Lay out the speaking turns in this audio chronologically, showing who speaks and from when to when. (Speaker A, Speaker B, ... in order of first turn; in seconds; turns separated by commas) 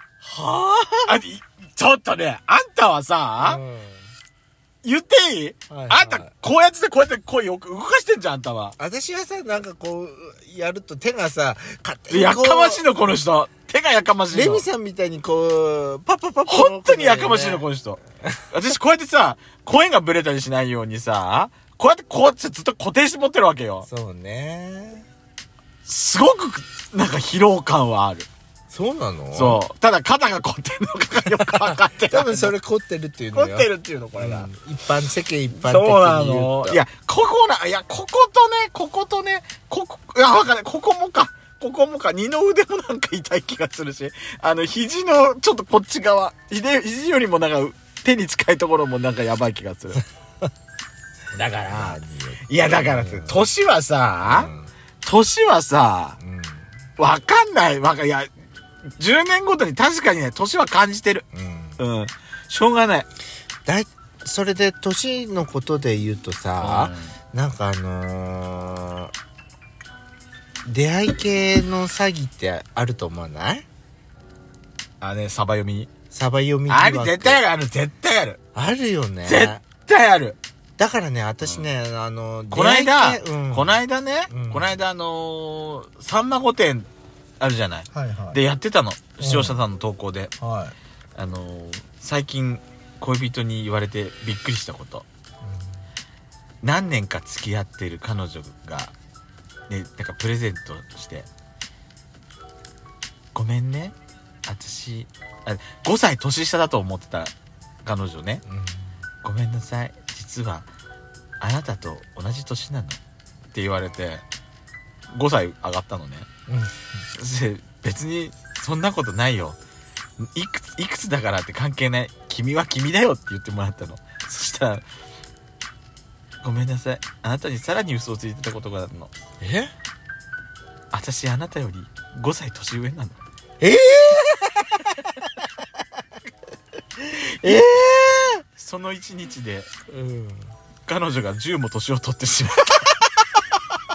Speaker A: 0.2-1.2, Speaker B: 1.1-3.6, Speaker A: 3.4-4.1, Speaker B: 4.8-8.8, Speaker A: 5.7-6.3, Speaker A: 8.8-12.8, Speaker B: 12.1-14.7, Speaker A: 14.3-17.6, Speaker B: 16.5-18.0, Speaker B: 18.5-23.9, Speaker A: 23.9-25.1, Speaker B: 25.9-28.3, Speaker A: 28.7-29.6, Speaker B: 29.3-32.5, Speaker A: 31.4-36.8, Speaker B: 33.3-34.5, Speaker B: 35.5-50.0, Speaker B: 51.3-54.5, Speaker A: 51.7-53.5, Speaker A: 54.3-54.7, Speaker B: 55.0-56.2, Speaker A: 56.2-56.7, Speaker B: 57.0-58.3, Speaker B: 59.0-61.3, Speaker A: 61.3-61.8, Speaker B: 61.8-63.1, Speaker A: 63.7-69.1, Speaker B: 66.6-67.1, Speaker A: 70.7-73.7, Speaker B: 75.0-75.9, Speaker A: 76.1-77.4, Speaker B: 76.7-78.4, Speaker A: 78.5-79.6, Speaker B: 79.2-80.4, Speaker A: 80.8-84.8, Speaker B: 82.5-86.9, Speaker B: 87.4-90.3, Speaker A: 87.9-88.4, Speaker A: 89.2-89.6, Speaker A: 90.4-90.8, Speaker B: 91.2-95.0, Speaker B: 96.6-98.9, Speaker B: 99.7-101.3, Speaker B: 103.3-104.0, Speaker B: 104.5-107.3, Speaker B: 107.8-108.4, Speaker A: 108.5-108.8, Speaker B: 109.2-110.7, Speaker B: 111.4-113.0, Speaker B: 113.5-114.2, Speaker B: 115.1-116.3, Speaker A: 116.5-116.9, Speaker B: 117.2-119.6, Speaker B: 120.3-124.9, Speaker B: 126.4-129.1, Speaker A: 129.4-129.7, Speaker B: 130.9-133.2, Speaker A: 133.6-134.9, Speaker B: 137.1-139.7, Speaker A: 139.9-140.4, Speaker B: 140.9-143.0